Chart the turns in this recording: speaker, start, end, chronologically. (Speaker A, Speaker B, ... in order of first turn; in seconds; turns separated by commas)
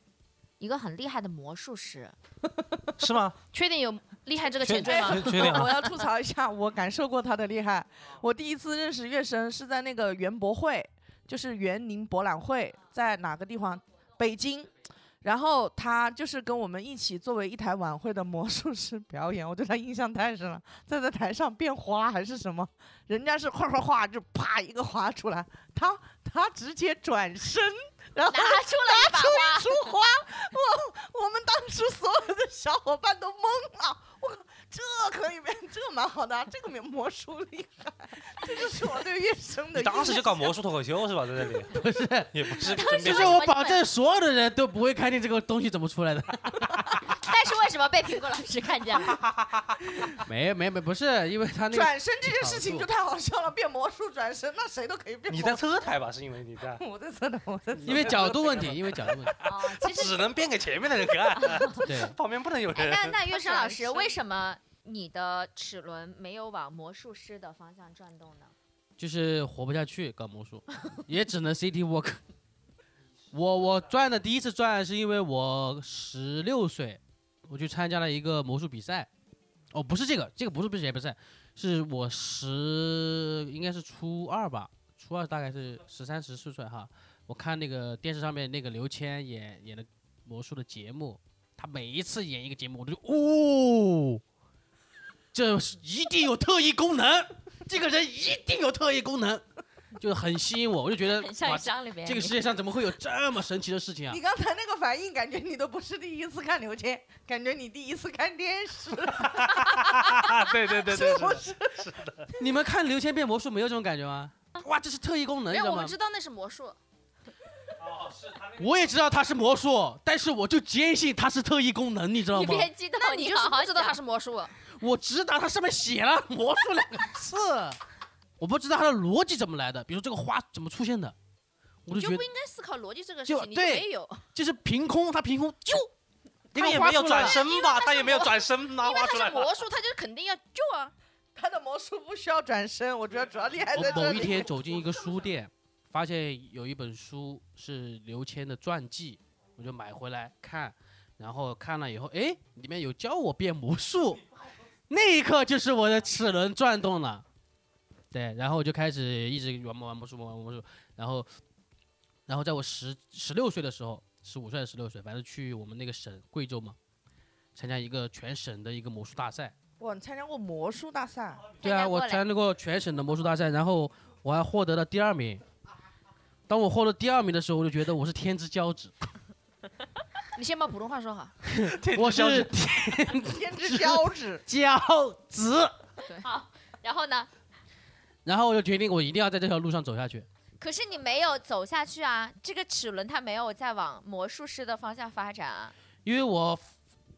Speaker A: 0.6-2.1, Speaker B: 2.5-3.0, Speaker C: 3.0-3.4, Speaker D: 3.5-5.9, Speaker C: 4.6-5.8, Speaker B: 4.8-40.5, Speaker A: 28.3-29.9, Speaker C: 39.7-43.4, Speaker E: 41.7-47.0, Speaker A: 42.7-43.8, Speaker A: 47.2-49.2, Speaker C: 49.1-50.2, Speaker E: 50.2-52.9, Speaker B: 51.7-55.7, Speaker C: 55.3-56.8, Speaker B: 56.8-58.2, Speaker C: 57.8-63.2, Speaker E: 57.9-59.3, Speaker A: 59.4-60.3, Speaker A: 61.4-61.8, Speaker E: 61.8-62.1, Speaker A: 62.7-68.5, Speaker B: 63.3-64.2, Speaker E: 69.0-72.2, Speaker E: 73.3-79.1, Speaker E: 79.7-94.2, Speaker E: 95.3-99.4, Speaker E: 100.0-104.2, Speaker A: 101.1-102.3, Speaker B: 104.1-112.3, Speaker C: 109.1-112.3, Speaker E: 112.4-115.9, Speaker D: 115.5-116.8, Speaker C: 117.8-118.8, Speaker E: 118.5-122.7, Speaker A: 122.3-124.0, Speaker D: 123.0-124.5, Speaker E: 124.7-127.8, Speaker E: 128.4-131.1, Speaker E: 131.8-132.2, Speaker D: 131.9-134.2, Speaker E: 133.3-135.9, Speaker C: 136.5-139.6, Speaker D: 136.5-140.9, Speaker E: 136.6-137.3, Speaker B: 141.3-144.5, Speaker E: 143.7-154.2, Speaker E: 154.9-157.2, Speaker E: 158.1-161.3, Speaker E: 162.3-166.8, Speaker E: 167.5-169.5, Speaker B: 169.8-171.4, Speaker A: 171.6-172.2, Speaker E: 171.6-175.4, Speaker E: 176.5-178.9, Speaker D: 180.3-181.4, Speaker E: 181.5-185.8, Speaker C: 181.7-182.5, Speaker B: 183.2-184.4, Speaker A: 186.1-187.3, Speaker E: 188.2-190.3, Speaker A: 190.6-195.7, Speaker E: 196.0-196.7